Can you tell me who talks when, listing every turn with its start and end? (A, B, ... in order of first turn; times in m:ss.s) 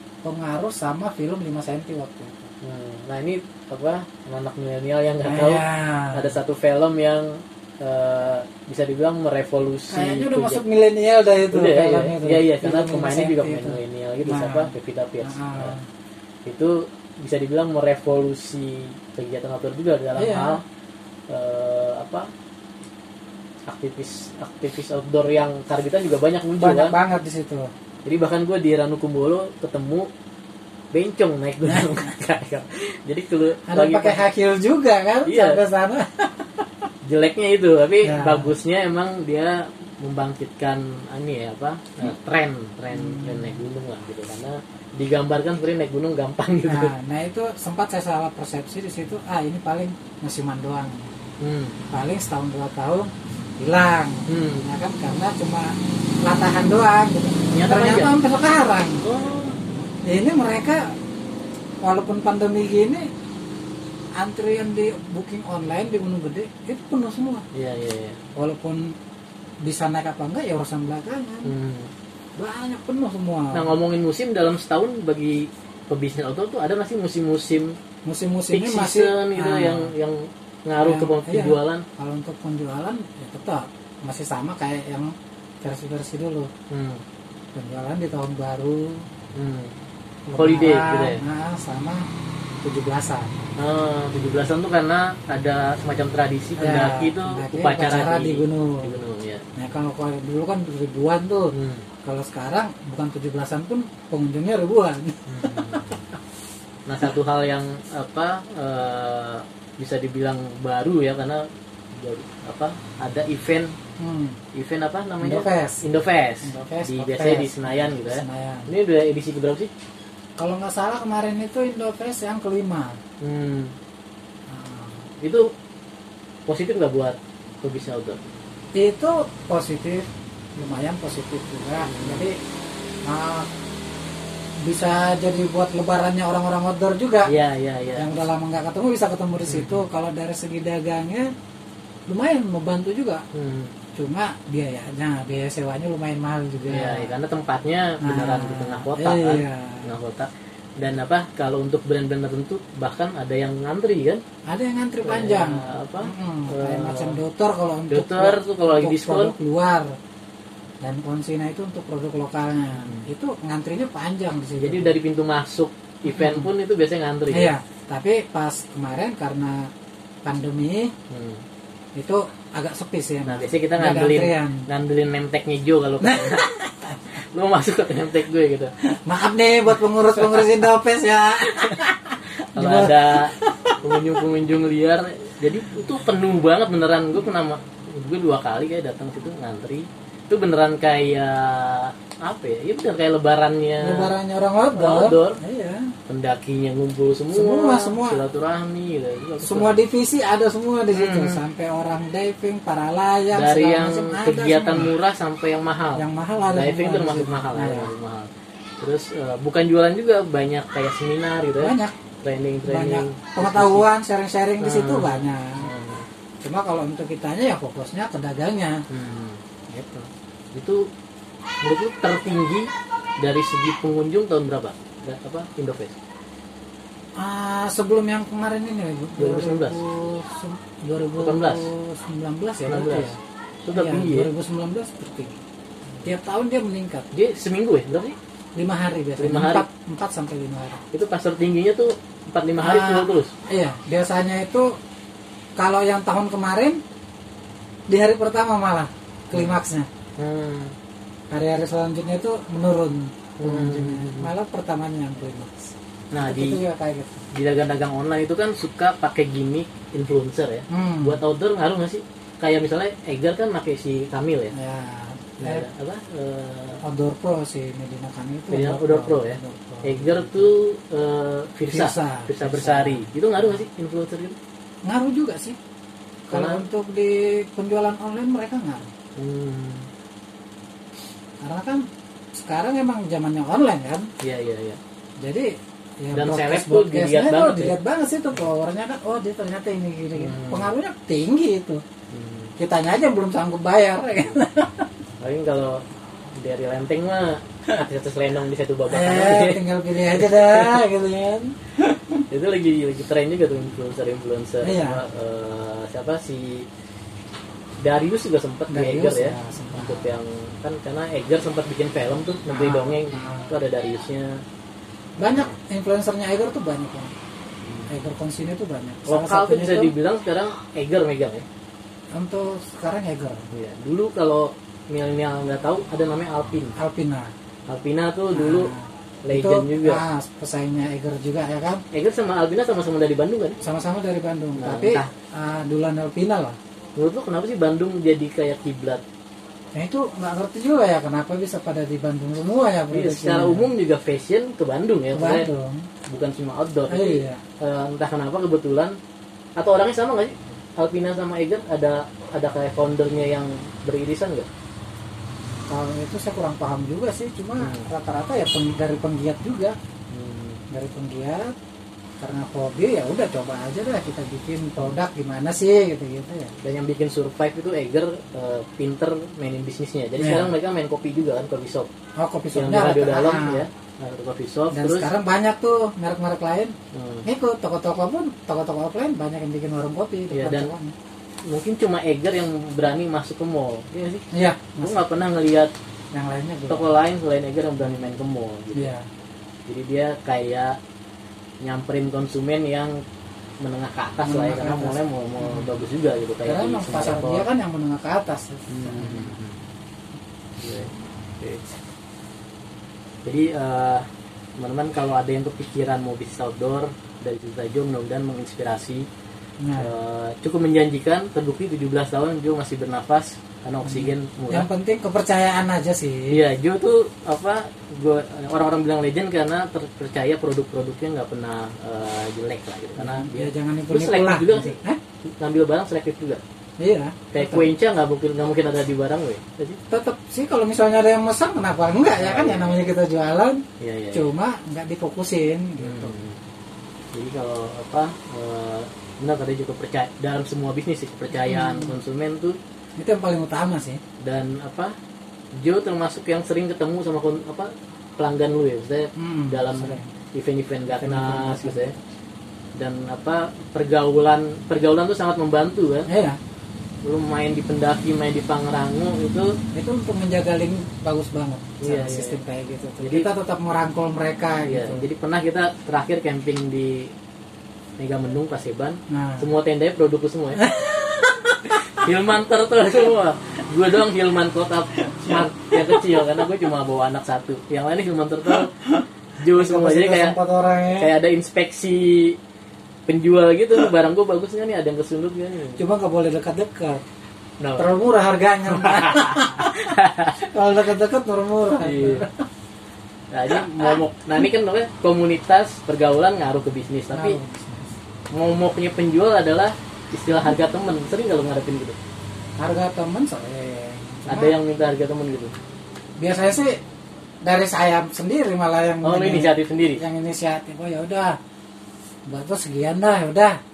0:00.2-0:02.5 A
0:02.6-0:10.6 B
0:05.2-0:06.3 A
0:09.9-0:15.8 A
0:11.5-0:15.8 B
0:16.4-0:20.6 B
0:20.2-0:20.6 A
0:21.3-0:22.3 B
0:23.7-0:27.0 B
0:26.6-0:27.7 A
0:28.0-0:30.1 B
0:30.9-0:34.3 B
0:31.6-0:32.1 A
0:33.7-0:36.7 A
0:35.2-0:35.6 B
0:37.0-0:46.9 B
0:38.0-0:38.5 A
0:42.9-0:43.6 A
0:46.7-0:51.1 A
0:51.4-0:51.8 B
0:51.9-0:59.0 A
0:54.3-0:54.7 B
0:57.5-0:58.2 B
0:59.0-0:59.6 B
1:00.0-1:00.9 A
1:01.8-1:03.1 A
1:04.2-1:07.4 A
1:07.5-1:08.2 B
1:08.4-1:08.9 A
1:09.6-1:11.5 A
1:11.4-1:11.9 B
1:12.4-1:13.7 A
1:13.5-1:17.8 B
1:18.0-1:19.9 A
1:18.5-1:21.8 B
1:20.8-1:26.5 A
1:26.7-1:27.0 B
1:27.5-1:29.1 A
1:29.3-1:29.7 B
1:30.3-1:32.0 A
1:30.3-1:31.2 B
1:32.6-1:33.4 A
1:33.6-1:39.4 B
1:36.6-1:38.9 A
1:39.6-1:46.0 A
1:41.5-1:41.9 B
1:45.3-1:45.9 B
1:46.8-1:53.8 B
1:54.0-1:54.4 A
1:54.5-1:59.7 B
1:55.2-1:55.8 A
1:56.4-1:58.7 A
2:00.4-2:03.0 A
2:03.2-2:03.7 B
2:04.5-2:05.1 A
2:05.2-2:05.5 B
2:06.5-2:08.2 B
2:08.7-2:12.4 A
2:11.8-2:12.2 B
2:13.0-2:13.5 A
2:14.6-2:17.3 A
2:17.2-2:18.1 B
2:18.0-2:21.3 A
2:19.4-2:19.8 B
2:22.1-2:23.2 A
2:23.3-2:23.7 B
2:24.0-2:27.1 A
2:26.7-2:34.2 B
2:28.0-2:29.9 A
2:34.5-2:40.0 A
2:35.0-2:37.2 B
2:37.9-2:39.3 B
2:40.8-2:45.0 A
2:42.8-2:43.1 B
2:44.6-2:47.5 B
2:46.0-2:46.5 A
2:47.3-2:49.7 A
2:50.2-2:50.9 A
2:51.1-2:51.4 B
2:51.9-2:54.7 A
2:53.2-2:56.5 B
2:56.0-2:57.1 A
2:57.1-2:58.7 B
2:58.8-3:03.7 A
3:01.4-3:01.8 B
3:02.5-3:14.1 B
3:13.8-3:15.9 A
3:14.7-3:15.4 B
3:16.1-3:19.8 B
3:17.3-3:18.2 A
3:19.4-3:24.9 A
3:20.9-3:21.4 B
3:23.3-3:33.9 B
3:26.0-3:27.9 A
3:31.6-3:32.0 A
3:32.6-3:35.7 A
3:34.6-3:36.0 B
3:36.4-3:38.8 A
3:38.9-3:39.4 B
3:39.7-3:40.1 A
3:40.5-3:40.9 B
3:41.6-3:42.7 B
3:43.2-3:46.0 B
3:47.2-3:53.2 A
3:49.2-3:49.8 B
3:51.2-3:51.7 B
3:52.6-3:54.3 B
3:53.7-3:55.4 A
3:56.0-3:57.1 A
3:57.1-3:58.2 B
3:58.6-4:00.8 A
3:59.2-3:59.6 B
4:00.9-4:03.3 B
4:02.6-4:04.8 A
4:05.6-4:06.8 A
4:07.9-4:09.9 A
4:09.3-4:09.6 B
4:10.2-4:10.7 B
4:11.3-4:17.2 A
4:13.4-4:14.3 B
4:16.1-4:16.6 B
4:17.3-4:24.5 B
4:20.7-4:21.2 A
4:24.5-4:25.7 A
4:25.4-4:26.8 B
4:26.8-4:30.5 A
4:28.5-4:34.4 B
4:31.7-4:33.6 A
4:34.8-4:35.6 A
4:36.3-4:38.9 A
4:36.3-4:36.6 B
4:39.2-4:39.9 B
4:41.4-4:44.1 A
4:44.2-4:44.8 B
4:45.2-4:51.8 A
4:46.1-4:47.8 B
4:50.2-4:50.7 B
4:52.1-4:52.5 B
4:52.6-4:54.9 A
4:55.2-4:55.8 B
4:56.4-5:00.8 B
4:58.9-5:02.2 A
5:02.3-5:06.7 B
5:04.6-5:05.0 A
5:07.8-5:14.4 B
5:08.7-5:10.1 A
5:12.5-5:13.5 A
5:15.2-5:17.1 A
5:17.6-5:17.9 B
5:17.9-5:19.9 A
5:19.1-5:21.4 B
5:22.1-5:23.5 A
5:23.5-5:26.8 B
5:26.8-5:27.3 A
5:27.7-5:28.7 B
5:28.3-5:31.8 A
5:29.2-5:30.0 B
5:31.9-5:33.6 B
5:33.6-5:36.6 A
5:34.6-5:35.1 B
5:37.0-5:39.0 B
5:39.7-5:43.7 A
5:42.9-5:45.5 B
5:45.1-5:45.9 A
5:46.1-5:49.0 B
5:46.9-5:47.4 A
5:49.6-5:54.5 B
5:55.7-5:59.8 A
5:57.6-5:57.9 B
6:00.1-6:00.6 B
6:00.7-6:01.5 A
6:02.2-6:06.6 A
6:06.6-6:11.9 B
6:10.2-6:10.5 A
6:12.2-6:13.6 A
6:12.5-6:15.1 B
6:14.7-6:20.9 A
6:16.9-6:17.2 B
6:20.3-6:20.7 B
6:21.5-6:24.3 B
6:24.3-6:25.0 A
6:24.8-6:25.7 B
6:26.1-6:26.9 A
6:26.7-6:28.9 B
6:27.8-6:28.2 A
6:28.7-6:29.0 A
6:29.7-6:30.8 B
6:31.6-6:33.0 B
6:33.6-6:37.4 B
6:34.2-6:35.7 A
6:36.4-6:39.4 A
6:38.7-6:39.6 B
6:40.6-6:41.8 B
6:43.2-6:44.1 B
6:44.6-6:49.1 B
6:49.6-6:49.9 A
6:49.7-6:54.7 B
6:53.8-6:56.4 A
6:56.3-7:06.4 B
7:03.0-7:05.0 A
7:06.8-7:07.7 A
7:07.3-7:09.8 B
7:09.9-7:16.1 A
7:12.1-7:12.9 B
7:13.8-7:14.3 B
7:15.8-7:16.4 B
7:17.1-7:22.6 B
7:21.3-7:22.0 A
7:23.0-7:24.0 A
7:24.2-7:24.9 B
7:25.5-7:32.0 B
7:29.2-7:30.1 A
7:30.9-7:31.9 A
7:32.8-7:36.1 B
7:36.1-7:36.4 A
7:37.0-7:39.6 B
7:39.7-7:45.0 A
7:41.8-7:42.4 B
7:43.0-7:43.3 B
7:44.7-7:47.1 B
7:48.0-7:50.7 B
7:49.1-7:49.5 A
7:50.6-7:51.8 A
7:51.6-7:58.8 B
7:55.2-7:56.4 A
7:58.8-8:01.1 A
7:59.4-8:00.4 B
8:00.9-8:02.4 B
8:03.1-8:05.8 B
8:05.8-8:07.0 A
8:07.6-8:07.9 B
8:07.8-8:12.4 A
8:08.7-8:10.4 B
8:11.8-8:12.3 B
8:13.3-8:17.4 B
8:13.5-8:14.4 A
8:17.1-8:18.0 A
8:18.3-8:22.0 B
8:22.6-8:24.6 A
8:24.3-8:25.5 B
8:26.2-8:26.8 A
8:27.4-8:31.4 A
8:29.0-8:30.0 B
8:32.3-8:33.6 A